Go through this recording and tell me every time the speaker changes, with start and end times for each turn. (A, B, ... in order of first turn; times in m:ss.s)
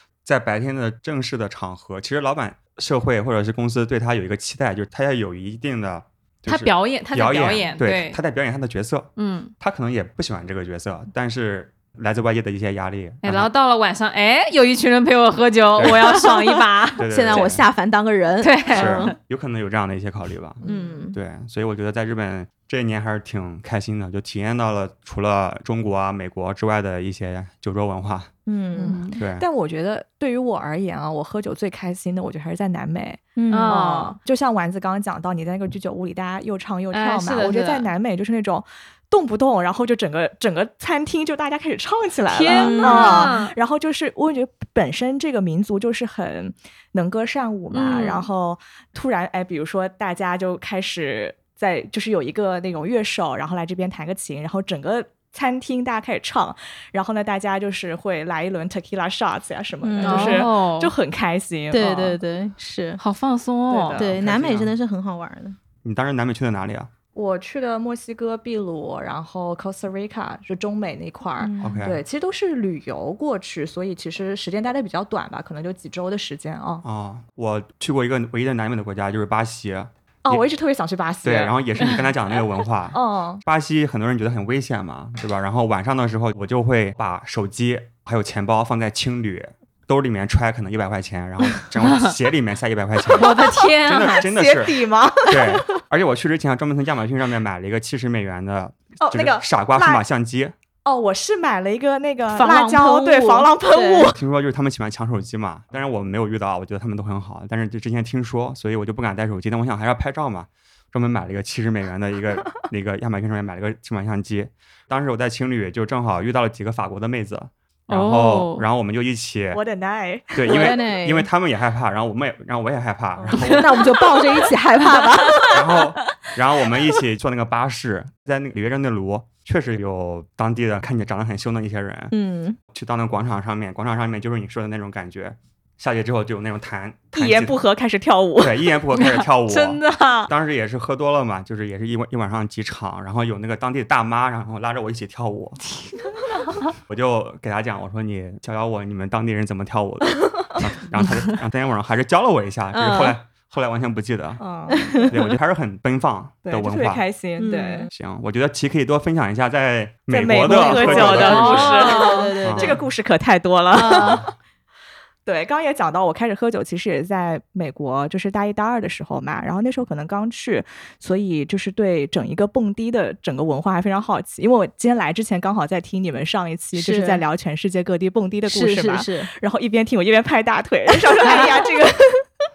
0:00.2-0:13.5 A
0:06.4-0:08.2 B
0:09.2-0:09.5 B
0:13.2-0:17.5 B
0:15.8-0:16.1 A
0:16.1-0:19.1 C
0:17.0-0:17.6 A
0:18.4-0:19.1 B
0:18.7-0:20.6 A
0:20.6-0:21.2 C
0:21.1-0:28.3 A
0:28.4-0:29.1 C
0:28.8-1:02.2 D
0:29.1-0:29.4 A
0:33.4-0:33.9 C
0:33.5-0:34.2 B
0:36.9-0:37.9 B
0:42.3-0:43.5 B
0:42.5-0:43.4 C
0:47.7-0:48.2 B
0:59.8-1:00.5 C
1:00.0-1:00.9 B
1:01.7-1:03.0 C
1:03.0-1:04.1 B
1:03.7-1:04.3 D
1:04.0-1:05.6 C
1:04.2-1:04.7 A
1:05.8-1:06.9 A
1:07.1-1:16.8 D
1:11.4-1:11.8 C
1:11.6-1:12.0 A
1:16.8-1:20.4 A
1:20.2-1:22.0 D
1:21.2-1:40.5 A
1:22.9-1:23.4 D
1:31.8-1:32.1 B
1:33.1-1:34.3 B
1:34.0-1:35.8 D
1:39.0-1:40.0 D
1:40.8-1:44.2 D
1:42.3-1:44.1 C
1:44.1-1:59.6 A
1:57.9-1:58.6 B
1:59.5-2:00.8 D
2:00.3-2:04.0 A
2:00.4-2:01.3 C
2:03.2-2:03.5 D
2:03.3-2:05.8 C
2:05.5-2:12.1 A
2:12.1-2:12.6 C
2:12.7-2:17.6 A
2:17.1-2:18.7 D
2:18.4-2:25.6 A
2:18.9-2:20.3 B
2:26.7-2:34.4 A
2:32.7-2:33.2 C
2:34.4-2:35.1 D
2:34.7-2:35.2 C
2:35.0-2:37.0 A
2:36.4-2:37.9 D
2:37.4-2:37.9 C
2:37.9-2:41.9 A
2:40.1-2:44.2 D
2:40.4-2:42.8 C
2:41.2-2:42.3 B
2:42.4-2:42.8 A
2:43.7-2:44.2 C
2:45.2-3:02.2 D
2:56.7-2:57.2 C
2:58.4-2:59.3 C
3:01.1-3:01.6 C